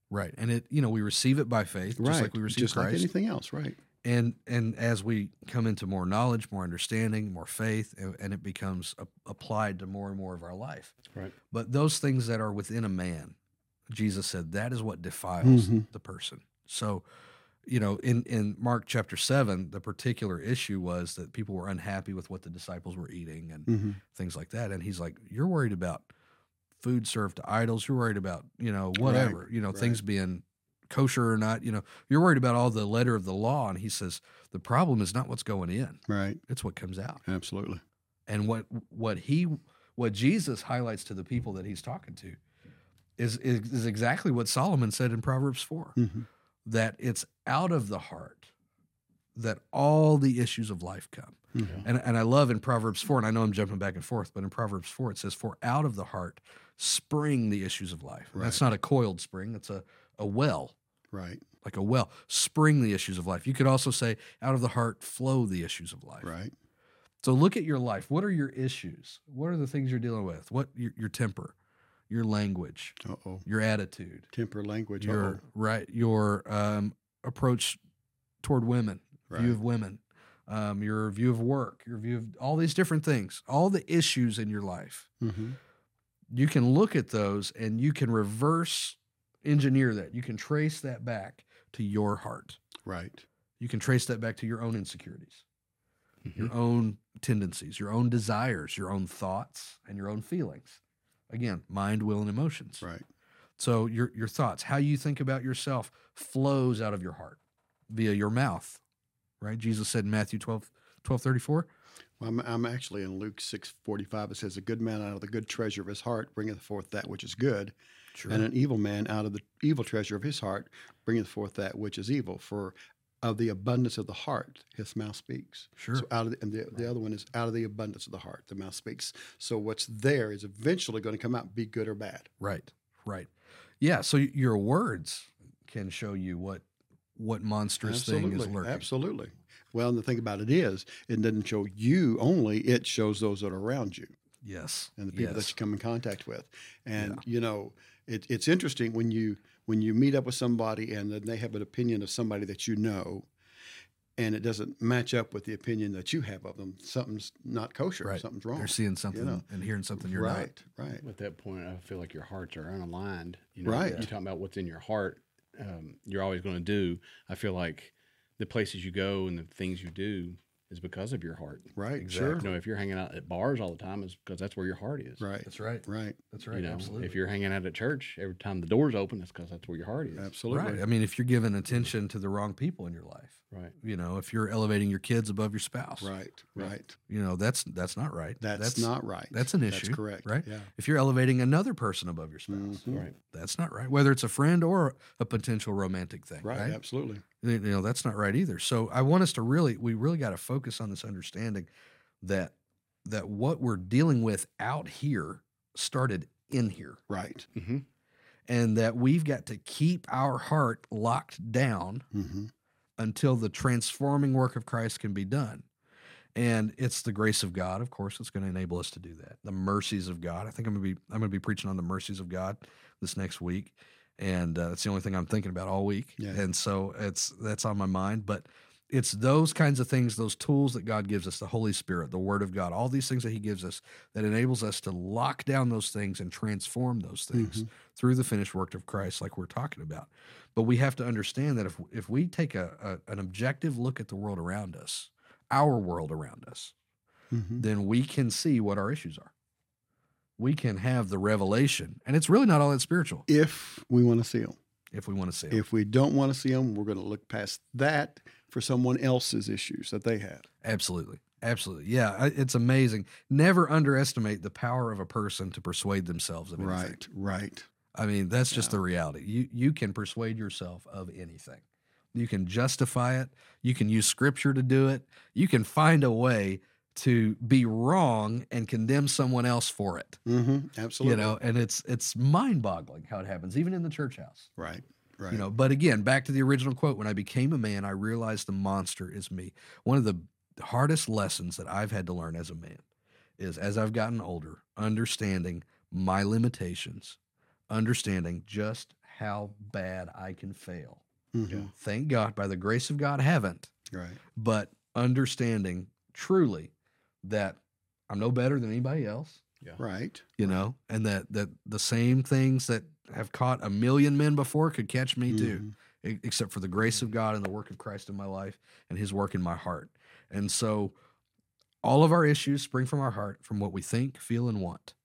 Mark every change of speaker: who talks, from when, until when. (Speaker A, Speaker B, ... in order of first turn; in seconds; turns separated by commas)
Speaker A: 0.1-3.1, Speaker B: 2.0-3.8, Speaker A: 4.0-10.9, Speaker A: 11.5-13.3, Speaker A: 13.9-17.1, Speaker B: 15.4-15.9, Speaker A: 17.7-26.1, Speaker B: 23.7-24.0, Speaker A: 26.8-37.2, Speaker B: 29.0-30.0, Speaker B: 36.1-36.4, Speaker B: 37.2-37.8, Speaker A: 38.3-42.4, Speaker A: 43.2-46.0, Speaker B: 46.0-46.3, Speaker A: 46.7-48.5, Speaker A: 49.4-60.8, Speaker B: 51.5-51.9, Speaker B: 58.3-58.6, Speaker B: 61.1-61.5, Speaker A: 61.6-66.3, Speaker B: 66.2-66.5, Speaker A: 67.2-71.5, Speaker A: 72.1-74.3, Speaker B: 73.0-73.5, Speaker B: 74.3-75.4, Speaker A: 75.0-77.8, Speaker A: 78.4-85.1, Speaker B: 79.3-79.6, Speaker B: 85.2-85.6, Speaker A: 86.3-92.6, Speaker B: 92.8-93.2, Speaker A: 93.6-95.4, Speaker C: 96.2-96.5, Speaker A: 96.3-100.8, Speaker A: 101.3-102.8, Speaker A: 103.6-107.4, Speaker A: 107.9-108.8, Speaker A: 109.4-111.7, Speaker B: 112.2-117.8, Speaker A: 118.2-118.5, Speaker B: 118.3-132.3, Speaker A: 125.8-126.1, Speaker A: 132.4-133.3, Speaker A: 133.8-136.6, Speaker A: 137.2-138.8, Speaker B: 137.8-144.1, Speaker A: 144.4-145.6, Speaker B: 145.0-153.3, Speaker A: 147.0-147.2, Speaker B: 154.2-159.5, Speaker A: 158.0-160.5, Speaker B: 160.0-161.0, Speaker C: 161.0-171.7, Speaker B: 163.7-164.1, Speaker A: 163.8-164.1, Speaker B: 171.8-172.5, Speaker A: 172.0-172.5, Speaker C: 172.4-175.2, Speaker B: 175.2-176.2, Speaker A: 175.4-177.2, Speaker C: 176.5-180.3, Speaker B: 180.2-180.8, Speaker A: 180.5-186.1, Speaker B: 186.0-187.0, Speaker A: 187.1-196.8, Speaker B: 188.4-190.7, Speaker B: 192.5-193.1, Speaker C: 192.9-193.2, Speaker B: 196.4-197.2, Speaker A: 197.4-201.7, Speaker A: 202.2-202.5, Speaker A: 203.1-207.0, Speaker B: 207.1-207.5, Speaker C: 207.6-207.8, Speaker A: 208.5-212.1, Speaker B: 212.1-212.5, Speaker A: 213.0-215.7, Speaker A: 216.3-246.7, Speaker B: 237.3-237.7, Speaker B: 247.3-247.7, Speaker A: 247.6-249.3, Speaker A: 250.4-253.3, Speaker B: 253.3-254.6, Speaker A: 254.9-255.6, Speaker B: 255.5-260.4, Speaker A: 260.6-267.0, Speaker B: 266.6-267.7, Speaker A: 267.9-271.6, Speaker B: 268.5-268.8, Speaker A: 272.1-280.2, Speaker B: 280.3-281.4, Speaker A: 281.0-284.5, Speaker B: 284.6-285.5, Speaker A: 285.3-292.8, Speaker A: 293.4-297.2, Speaker A: 297.7-303.7, Speaker B: 301.3-301.7, Speaker B: 303.9-304.2, Speaker A: 304.4-306.7, Speaker A: 307.2-309.4, Speaker B: 309.8-310.7, Speaker A: 310.4-321.0, Speaker B: 315.3-315.7, Speaker A: 321.8-324.9